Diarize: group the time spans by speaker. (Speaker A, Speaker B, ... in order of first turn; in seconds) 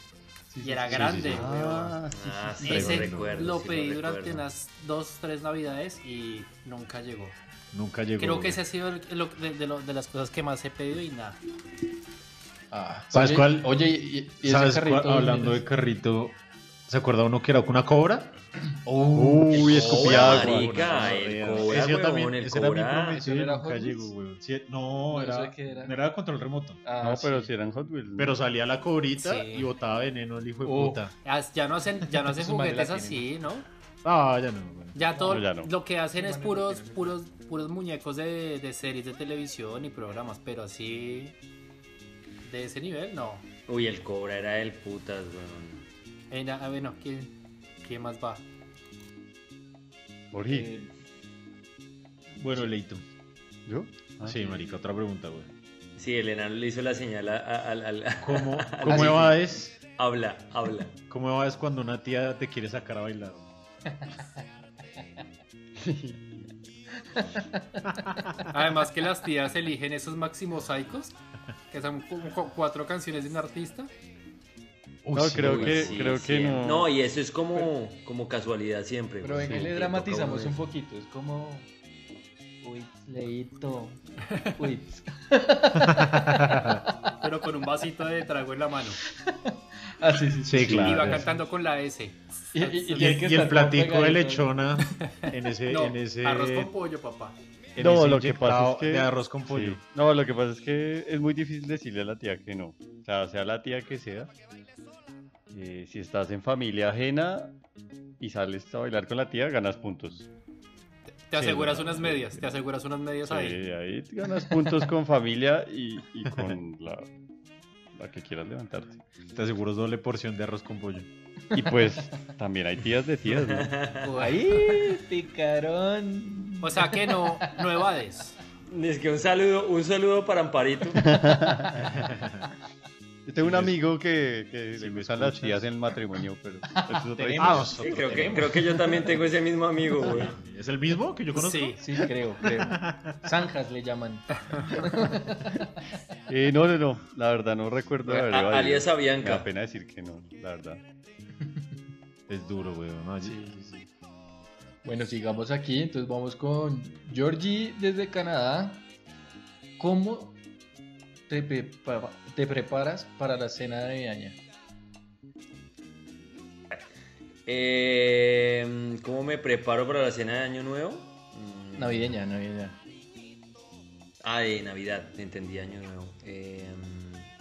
Speaker A: 0.5-1.3, 12.7-15.6, 18.8-19.7, 23.2-24.1, 25.1-26.0, 26.8-27.5, 30.6-31.0, 32.3-33.2, 35.1-35.4, 36.1-37.1, 50.5-50.9, 58.9-59.4, 67.2-67.9, 79.2-81.7, 82.6-86.7, 89.2-91.4, 92.5-94.5, 124.0-127.5, 141.8-145.6, 153.2-153.9, 154.8-158.8, 159.8-160.4, 161.3-164.4, 171.8-172.8
Speaker B: 0.6-2.0, 2.6-7.3, 8.2-11.4, 29.2-29.7, 31.2-33.6, 34.9-41.4, 42.4-43.4, 46.3-48.4, 68.5-71.2, 71.7-73.9, 87.2-89.0, 90.7-93.2, 94.8-97.4, 111.3-113.6, 124.2-124.8, 126.6-128.4, 137.2-138.4, 141.3-141.8
Speaker C: 0.9-1.5, 2.6-3.4, 7.7-8.6, 13.1-13.7, 14.4-18.3, 19.1-26.8, 28.2-31.1, 34.0-35.0, 52.4-53.0, 54.2-55.5, 58.2-59.7, 61.1-63.5, 67.9-68.4, 75.0-76.1, 85.8-86.8, 90.5-91.3, 92.9-96.7, 97.8-99.8, 111.3-112.2, 116.3-116.6, 119.3-121.1, 131.8-132.4, 133.4-133.8, 134.7-135.7, 137.3-138.8, 140.0-141.8, 142.4-143.2, 152.3-153.3
Speaker D: 1.1-2.7, 19.5-21.1, 27.0-28.4, 35.2-35.7, 50.3-50.7, 53.7-54.5, 65.8-66.5, 75.1-76.9, 97.8-104.3, 105.5-107.5, 108.2-110.3, 113.3-117.1, 118.0-119.0, 121.5-123.8, 130.9-131.9, 133.2-137.7, 146.3-150.8
Speaker E: 2.1-4.5, 19.6-23.2, 43.7-45.8, 56.0-61.0, 75.4-80.7, 123.2-124.2, 128.7-131.1, 137.8-140.4, 148.0-149.5, 167.4-172.2, 174.2-177.3